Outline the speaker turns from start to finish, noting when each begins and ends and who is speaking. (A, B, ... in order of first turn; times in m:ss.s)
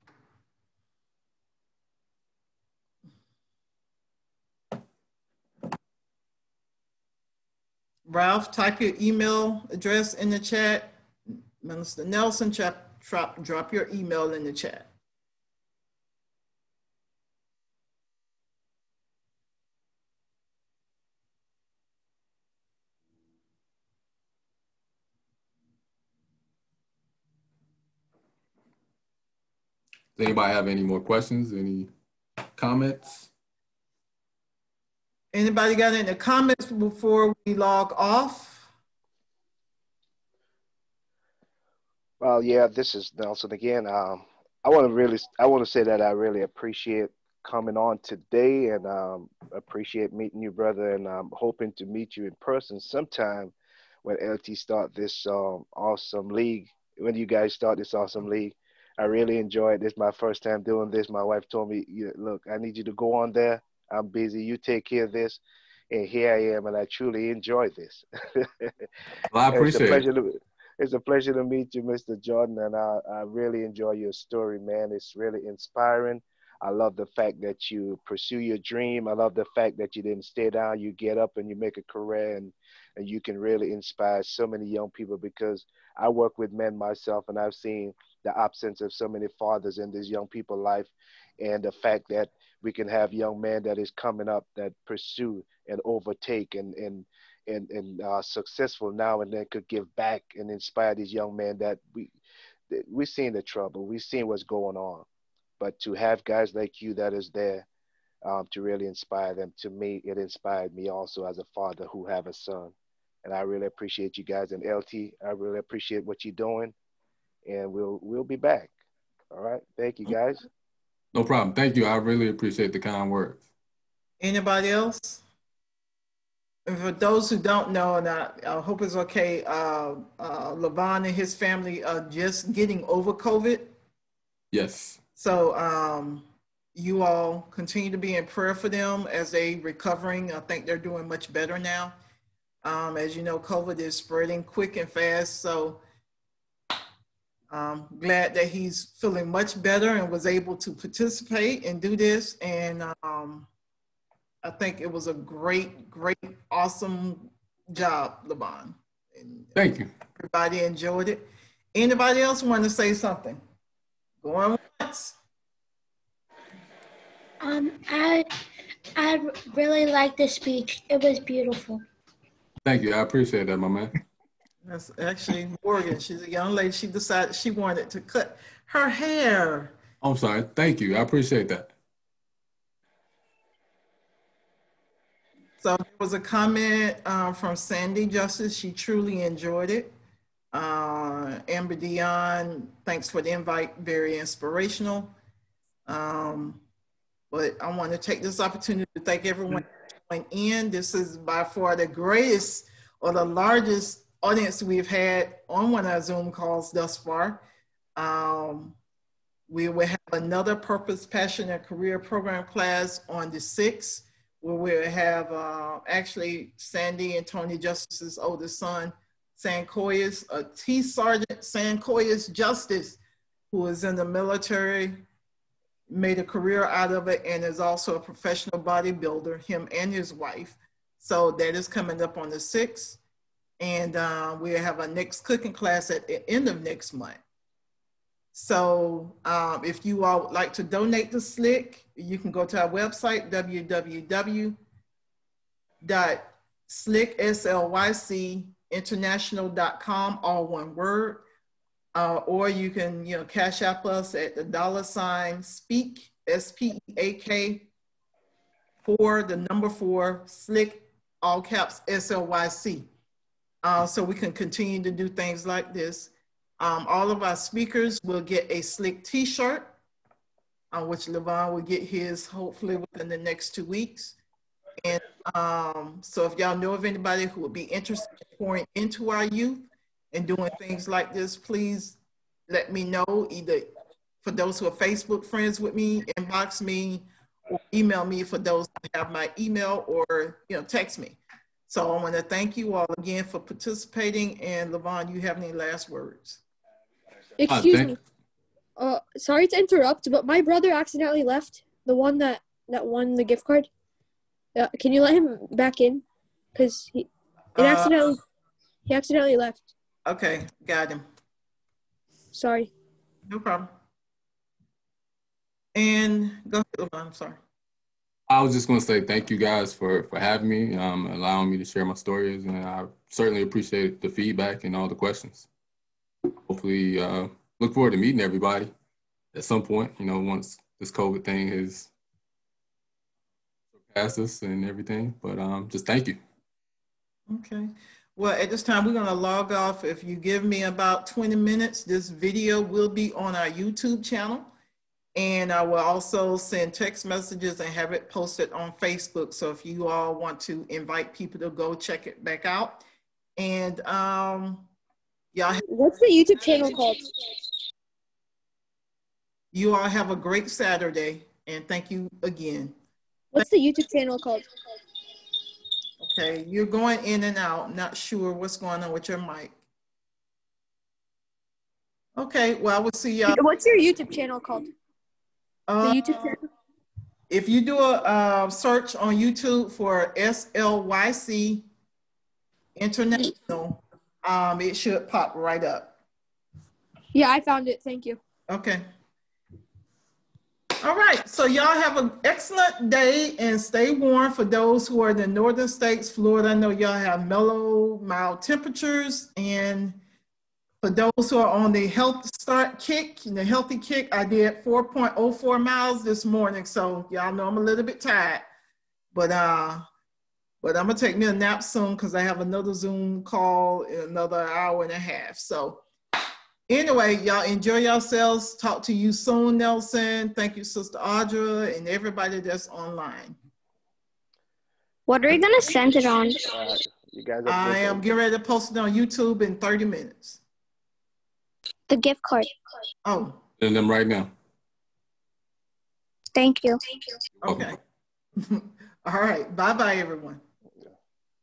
0:08.1-0:10.9 A
0:11.6-0:14.9 A
0:30.2-0:31.9 B
0:32.6-0:33.3 B
0:35.3-0:38.7 A
0:42.2-0:53.5 C
0:54.0-1:05.4 C
1:05.9-1:08.8 C
1:09.3-1:10.0 B
1:09.5-1:42.1 C
1:42.7-1:45.1 C
1:45.6-1:47.7 C
1:48.2-1:56.7 C
1:57.5-1:58.7 C
1:59.3-2:00.4 C
2:01.1-2:03.4 B
2:04.2-2:05.2 A
2:06.7-2:13.7 A
2:14.5-2:15.0 B
2:15.2-2:21.9 A
2:22.6-2:25.8 A
2:27.5-2:33.5 A
2:34.4-2:39.5 A
2:39.6-2:39.9 B
2:40.2-2:41.2 A
2:41.8-2:43.4 A
2:44.2-2:45.2 A
2:47.4-2:48.3 D
2:49.0-2:51.8 D
2:52.6-2:53.9 B
2:54.6-2:59.7 A
3:00.0-3:01.7 B
3:05.6-3:09.9 A
3:10.5-3:15.1 A
3:15.9-3:16.6 A
3:17.3-3:27.4 A
3:28.0-3:28.8 A
3:29.5-3:43.0 A
3:43.5-3:45.0 A
3:45.9-3:53.0 A
3:53.6-3:57.2 A
3:58.3-4:04.6 A
4:05.8-4:11.2 A
4:12.0-4:17.7 A
4:18.9-4:22.9 A
4:23.6-4:29.7 A
4:30.7-4:34.2 A
4:34.8-4:42.0 A
4:42.5-4:43.7 A
4:44.2-4:47.1 A
4:47.6-4:56.4 A
4:57.4-4:58.0 E
4:57.5-4:58.0 B
4:58.8-5:03.7 E
5:04.6-5:06.0 E
5:06.6-5:07.1 E
5:07.6-5:07.9 A
5:07.6-5:08.2 E
5:08.9-5:09.7 E
5:10.1-5:11.0 A
5:12.3-5:12.7 E
5:13.3-5:13.7 A
5:15.8-5:17.4 A
5:18.3-5:25.5 B
5:26.5-5:28.7 B
5:29.3-5:31.9 B
5:33.8-5:36.2 B
5:37.3-5:44.5 A
5:45.2-5:52.8 A
5:53.4-5:54.7 A
5:55.4-5:55.6 A
5:55.7-5:57.1 E
5:59.5-6:02.8 A
6:03.3-6:04.4 E
6:06.0-6:09.5 A
6:12.2-6:13.4 A
6:13.3-6:14.7 E
6:15.7-6:16.4 A
6:15.8-6:16.4 E
6:17.3-6:21.6 A
6:22.8-6:26.0 A
6:27.1-6:28.2 E
6:28.5-6:28.8 A
6:30.8-6:40.0 A
6:40.8-6:48.4 A
6:49.1-6:49.8 A
6:50.6-6:55.8 A
6:56.7-7:03.4 A
7:05.1-7:06.4 F
7:06.5-7:08.1 C
7:07.5-7:10.4 A
7:11.9-7:12.5 F
7:13.1-7:13.4 A
7:13.6-7:14.3 B
7:16.3-7:16.9 F
7:17.4-7:17.8 A
7:17.5-7:17.7 B
7:18.4-7:20.4 A